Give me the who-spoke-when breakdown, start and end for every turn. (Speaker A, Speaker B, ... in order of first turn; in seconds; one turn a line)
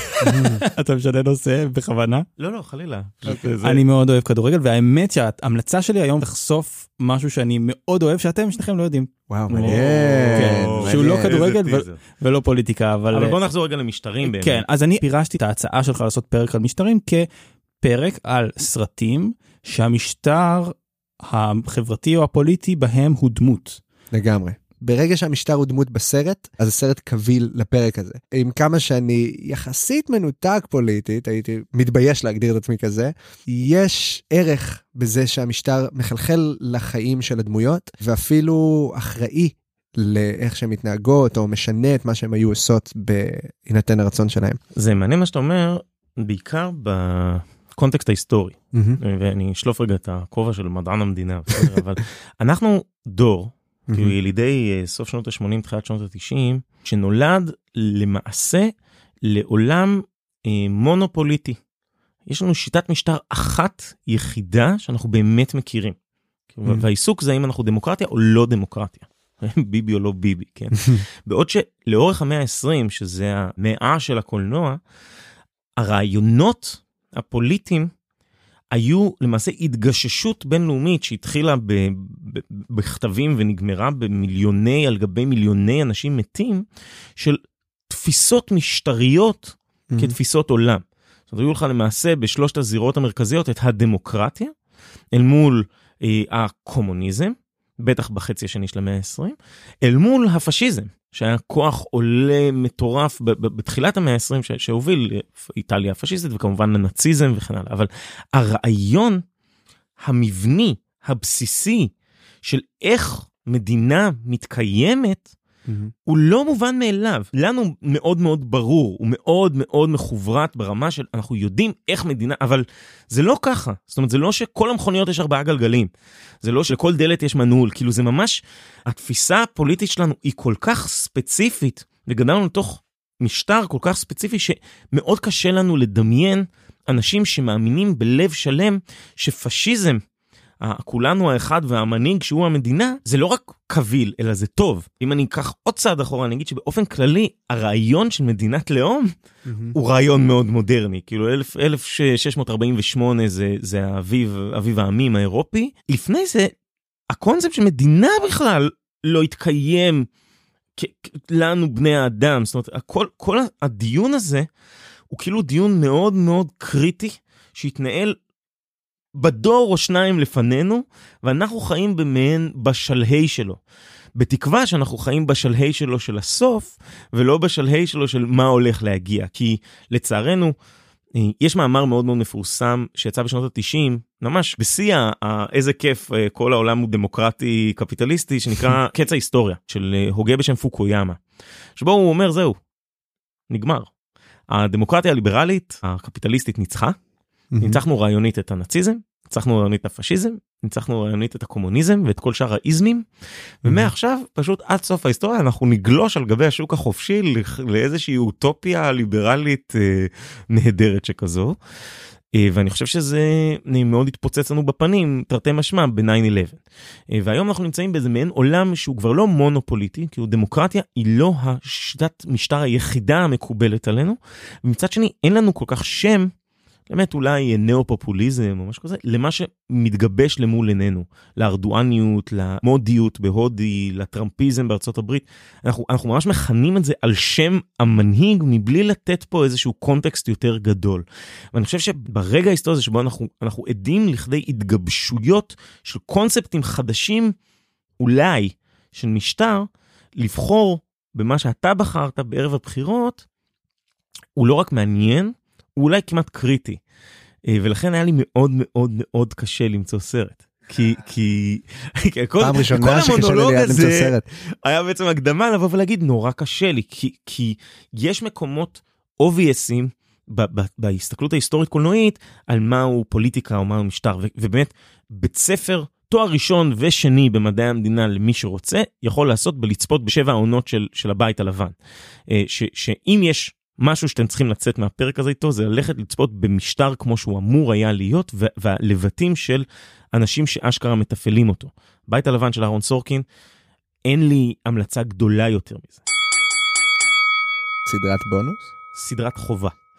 Speaker A: 0.2-2.3
Speaker B: 0.2-0.6
Speaker C: 2.4-3.8
Speaker A: 3.6-9.8
Speaker B: 9.3-11.4
Speaker C: 9.5-12.0
Speaker A: 10.3-13.4
Speaker C: 13.1-14.6
Speaker A: 14.2-17.3
Speaker A: 17.8-23.8
Speaker B: 24.1-44.6
Speaker C: 44.8-58.7
Speaker B: 48.7-49.0
Speaker B: 53.9-54.1
Speaker C: 59.2-61.6
Speaker C: 62.3-66.0
Speaker C: 66.5-74.8
Speaker C: 75.8-77.9
Speaker C: 78.7-86.7
Speaker C: 87.2-94.5
Speaker B: 89.9-90.2
Speaker C: 95.1-109.2
Speaker C: 110.0-111.9
Speaker C: 112.4-115.3
Speaker B: 115.7-115.9
Speaker C: 116.1-125.9
Speaker C: 126.4-140.0
Speaker C: 140.6-149.1
Speaker B: 149.5-149.8
Speaker C: 149.7-156.5
Speaker C: 157.1-160.1
Speaker C: 160.8-164.5
Speaker C: 165.1-168.2
Speaker C: 169.2-173.6
Speaker C: 174.2-180.5
Speaker C: 181.2-191.2
Speaker C: 191.8-192.6
Speaker C: 193.5-193.9
Speaker C: 194.5-197.0
Speaker B: 197.5-197.8
Speaker C: 197.6-203.0
Speaker C: 203.6-211.6
Speaker B: 203.7-203.9
Speaker C: 212.3-216.6
Speaker C: 217.1-226.3
Speaker C: 226.9-247.3
Speaker C: 248.0-253.2
Speaker C: 254.4-256.8
Speaker C: 257.5-281.8
Speaker B: 262.4-264.2
Speaker C: 282.3-293.2
Speaker C: 294.1-296.0
Speaker B: 297.9-298.7
Speaker C: 298.9-299.7